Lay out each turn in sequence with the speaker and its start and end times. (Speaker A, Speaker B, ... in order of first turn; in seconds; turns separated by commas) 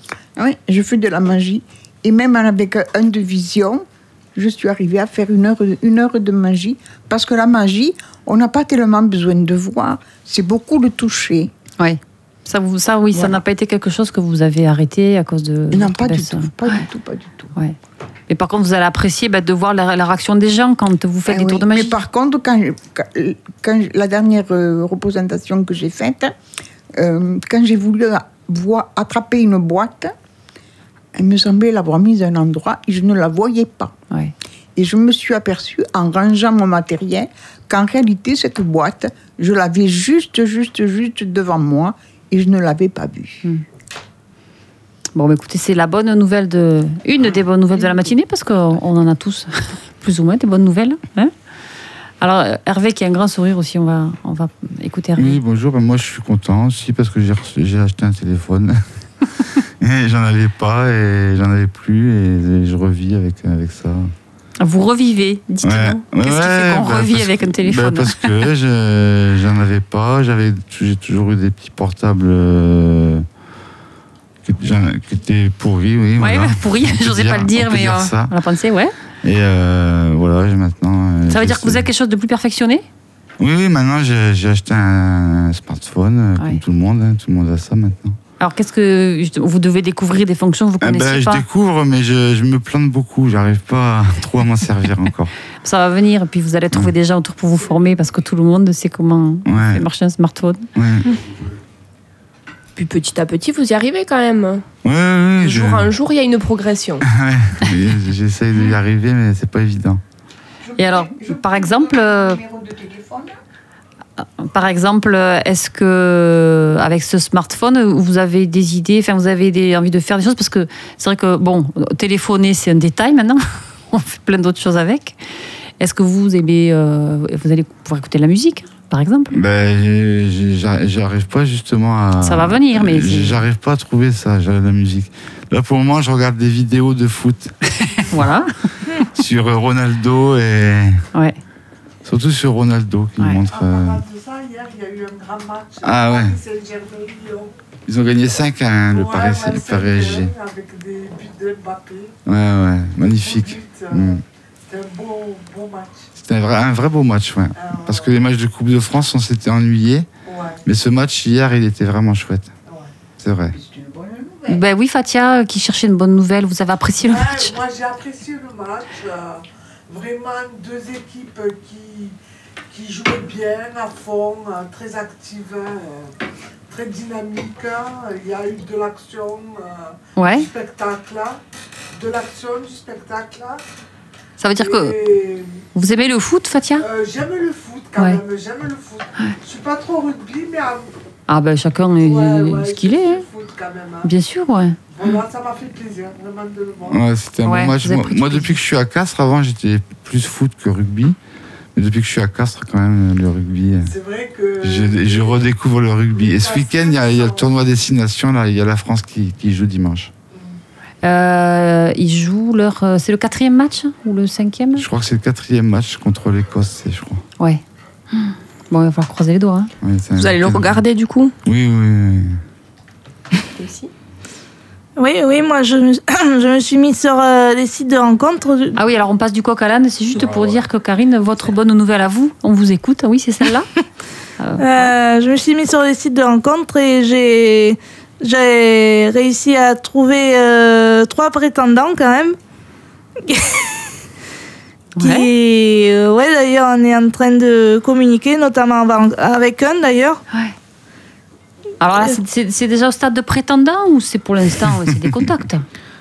Speaker A: 0.4-11.5, Speaker B: 11.8-16.8, Speaker A: 13.1-13.4, Speaker A: 15.7-17.5, Speaker B: 18.3-22.0, Speaker A: 21.3-26.3, Speaker A: 26.9-30.1, Speaker A: 31.1-33.9, Speaker A: 34.8-43.4, Speaker B: 45.1-51.3, Speaker B: 52.2-55.4, Speaker C: 55.2-58.8, Speaker C: 59.8-64.1, Speaker B: 64.6-68.3, Speaker C: 65.6-73.3, Speaker C: 74.4-78.3, Speaker B: 76.2-78.9, Speaker C: 79.2-81.9, Speaker B: 81.3-82.8, Speaker C: 83.4-88.2, Speaker B: 88.4-91.5, Speaker C: 90.8-95.3, Speaker B: 95.6-100.7, Speaker C: 99.5-99.8, Speaker C: 100.8-101.2, Speaker D: 102.8-104.7, Speaker C: 104.8-105.9, Speaker D: 105.4-107.1, Speaker C: 107.0-110.0, Speaker A: 110.6-113.3, Speaker B: 110.8-112.4, Speaker B: 114.2-125.2, Speaker B: 125.8-129.4, Speaker C: 129.3-138.3, Speaker B: 132.2-133.4, Speaker B: 137.8-138.5, Speaker C: 139.1-141.0, Speaker C: 142.1-144.0, Speaker E: 143.5-147.5, Speaker C: 145.8-146.4, Speaker C: 147.9-150.3, Speaker E: 148.9-152.2, Speaker C: 152.3-154.2, Speaker E: 153.0-156.1, Speaker C: 156.2-160.1, Speaker E: 157.6-158.2, Speaker E: 160.2-160.6, Speaker C: 160.7-162.5, Speaker C: 163.2-163.6, Speaker A: 163.5-164.6, Speaker B: 164.5-167.6, Speaker E: 167.0-172.2, Speaker E: 172.7-176.1, Speaker E: 176.7-181.4, Speaker B: 180.2-180.5, Speaker E: 181.9-183.6, Speaker B: 184.4-185.0, Speaker E: 184.6-185.6, Speaker B: 185.7-186.9, Speaker E: 186.8-190.9, Speaker B: 191.3-193.2, Speaker E: 192.0-194.1, Speaker B: 194.0-194.8, Speaker E: 194.9-197.0, Speaker C: 196.9-201.2, Speaker B: 197.4-198.6, Speaker C: 201.8-203.9, Speaker E: 203.8-205.5, Speaker C: 204.6-210.1, Speaker E: 206.1-207.5, Speaker E: 210.3-210.6, Speaker B: 211.0-214.9, Speaker C: 214.8-217.2, Speaker B: 217.4-219.7, Speaker C: 219.8-220.8, Speaker D: 220.2-221.3, Speaker C: 221.4-222.4, Speaker D: 223.5-223.9, Speaker F: 225.0-228.8, Speaker B: 228.8-233.7, Speaker B: 234.4-234.9, Speaker F: 234.6-242.4, Speaker F: 243.2-243.8, Speaker B: 245.0-245.3, Speaker F: 245.0-250.2, Speaker B: 251.8-255.7